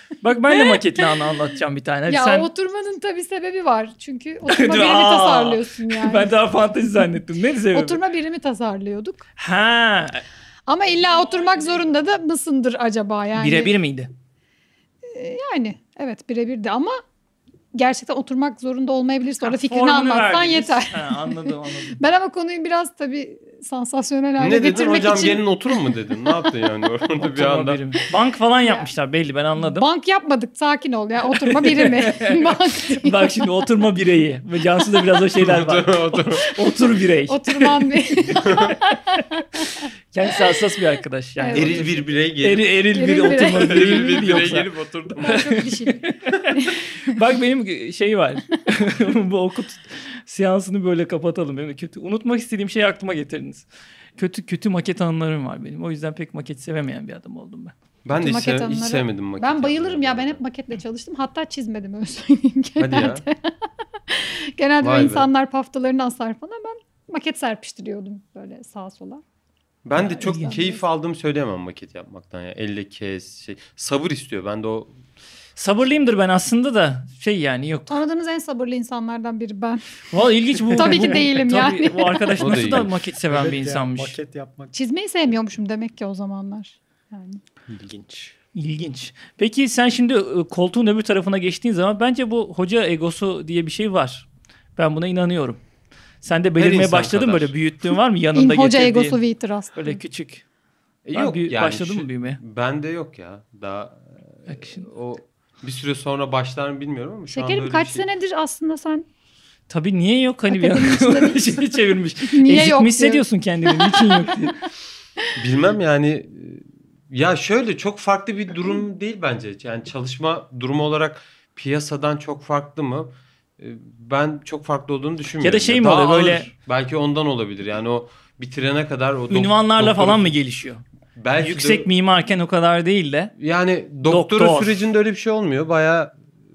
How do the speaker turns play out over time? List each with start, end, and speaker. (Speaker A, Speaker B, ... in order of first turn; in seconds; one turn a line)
Speaker A: 0.2-2.5
Speaker B: 0.5-1.0
Speaker B: 2.1-6.3
Speaker A: 4.5-8.0
Speaker B: 7.7-9.2
Speaker A: 9.4-10.2
Speaker B: 10.7-13.7
Speaker A: 13.3-14.1
Speaker B: 15.1-17.0
Speaker B: 17.7-26.1
Speaker A: 19.4-22.0
Speaker C: 24.4-27.8
Speaker A: 27.2-29.9
Speaker B: 29.6-33.5
Speaker A: 31.3-37.8
Speaker C: 35.4-36.5
Speaker B: 37.3-40.5
Speaker C: 38.4-38.8
Speaker A: 40.1-44.7
Speaker B: 41.4-42.0
Speaker C: 41.5-42.7
Speaker B: 42.9-44.2
Speaker C: 43.3-45.4
Speaker B: 45.2-46.7
Speaker A: 45.2-53.6
Speaker A: 54.2-57.7
Speaker C: 58.0-60.4
Speaker B: 58.1-63.5
Speaker C: 62.8-63.2
Speaker B: 64.1-69.2
Speaker C: 64.8-65.3
Speaker C: 69.8-74.9
Speaker B: 70.0-70.8
Speaker A: 70.0-70.6
Speaker A: 75.5-77.9
Speaker B: 77.9-79.8
Speaker A: 80.1-84.2
Speaker B: 80.7-82.6
Speaker C: 82.4-83.0
Speaker D: 83.3-84.7
Speaker B: 84.7-87.4
Speaker D: 87.7-88.3
Speaker A: 88.5-95.6
Speaker A: 96.2-99.2
Speaker C: 96.6-97.5
Speaker B: 98.3-100.0
Speaker A: 99.7-100.4
Speaker C: 101.0-108.0
Speaker A: 101.1-102.4
Speaker A: 104.5-104.8
Speaker B: 107.3-109.0
Speaker A: 109.7-114.5
Speaker B: 110.5-111.7
Speaker B: 112.3-114.3
Speaker C: 115.4-130.3
Speaker A: 125.4-126.5
Speaker A: 129.3-130.8
Speaker C: 131.2-131.8
Speaker A: 131.4-133.3
Speaker C: 133.4-136.1
Speaker A: 134.1-134.8